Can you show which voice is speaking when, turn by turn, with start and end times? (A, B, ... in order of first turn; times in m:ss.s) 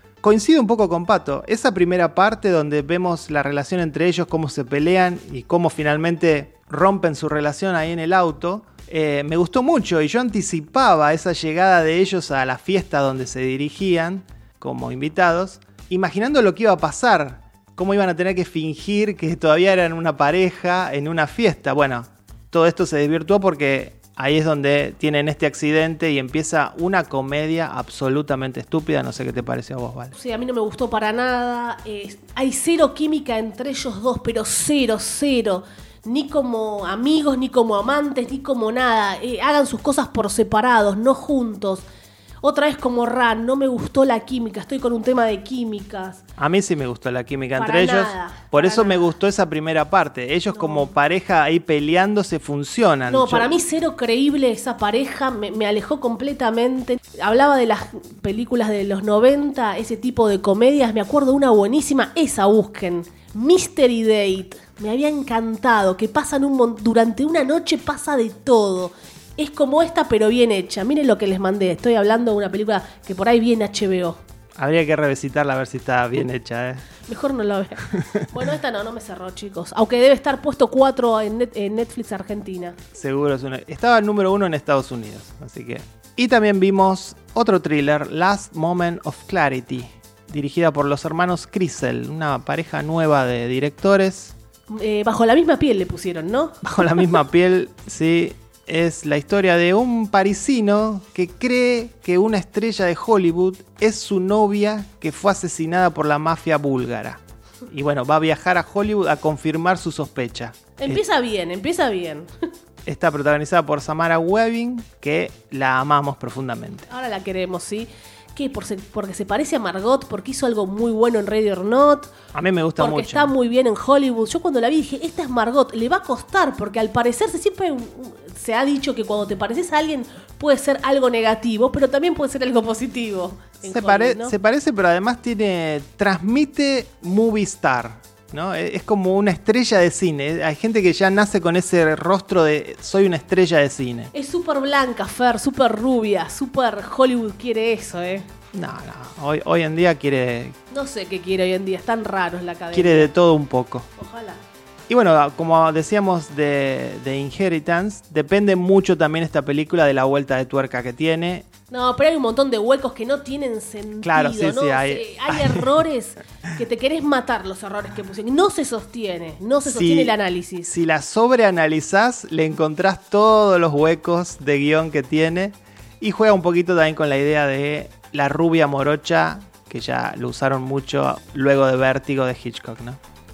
0:00.2-0:30.1 A
0:30.1-0:41.8 B
0:42.4-0:46.2 B
0:46.4-0:53.5 A
0:47.6-0:49.1 B
0:50.5-0:50.9 B
0:53.1-1:14.2 B
1:14.6-1:16.9 A
1:17.1-1:22.8 B
1:23.0-1:34.3 A
1:34.7-1:37.1 B
1:36.6-1:51.0 A
1:50.8-1:52.3 B
1:52.9-1:56.9 A
1:56.9-2:02.1 B
2:02.3-2:03.3 A
2:02.8-2:14.3 B
2:13.6-2:24.1 A
2:24.1-2:28.3 B
2:28.5-2:30.6 A
2:30.7-2:33.1 B
2:32.7-2:33.9 A
2:34.0-2:34.4 B
2:34.9-2:41.5 A
2:41.7-2:50.7 B
2:44.0-2:45.8 A
2:49.6-2:50.1 A
2:50.7-3:03.0 A